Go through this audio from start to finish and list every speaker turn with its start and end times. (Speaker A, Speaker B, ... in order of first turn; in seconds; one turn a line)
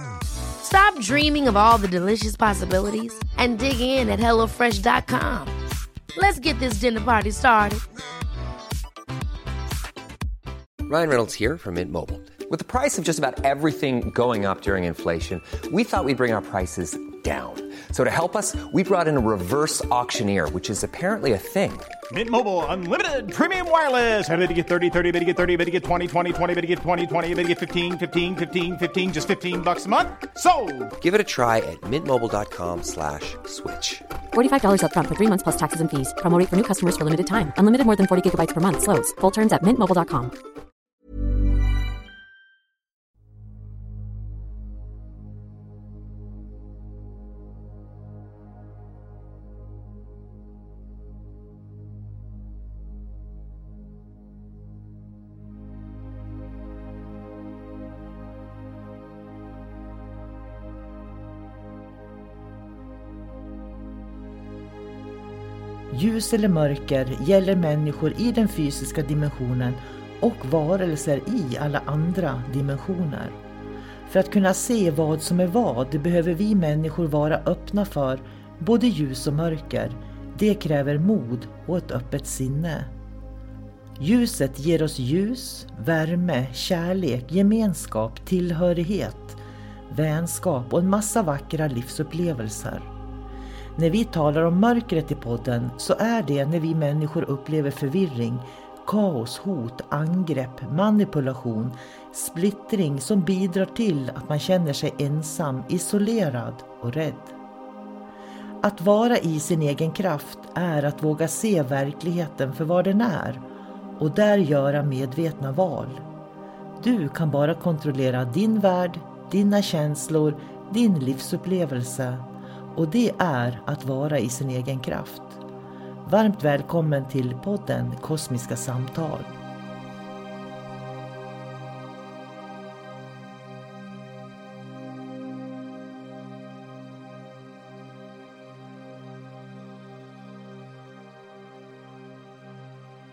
Speaker A: 0.6-5.5
Speaker A: 6.2-7.8
Speaker B: 10.9-21.9
Speaker C: 22.1-30.9
Speaker B: 31.0-34.1
Speaker D: 34.3-40.3
Speaker E: 65.9-73.3
Speaker E: 74.1-82.9
Speaker E: 84.0-89.4
Speaker E: 89.9-92.8
Speaker E: 93.8-107.3
Speaker E: 108.6-113.4
Speaker E: 114.0-116.0
Speaker E: 116.8-122.2
Speaker E: 122.8-125.3
Speaker E: 126.1-129.3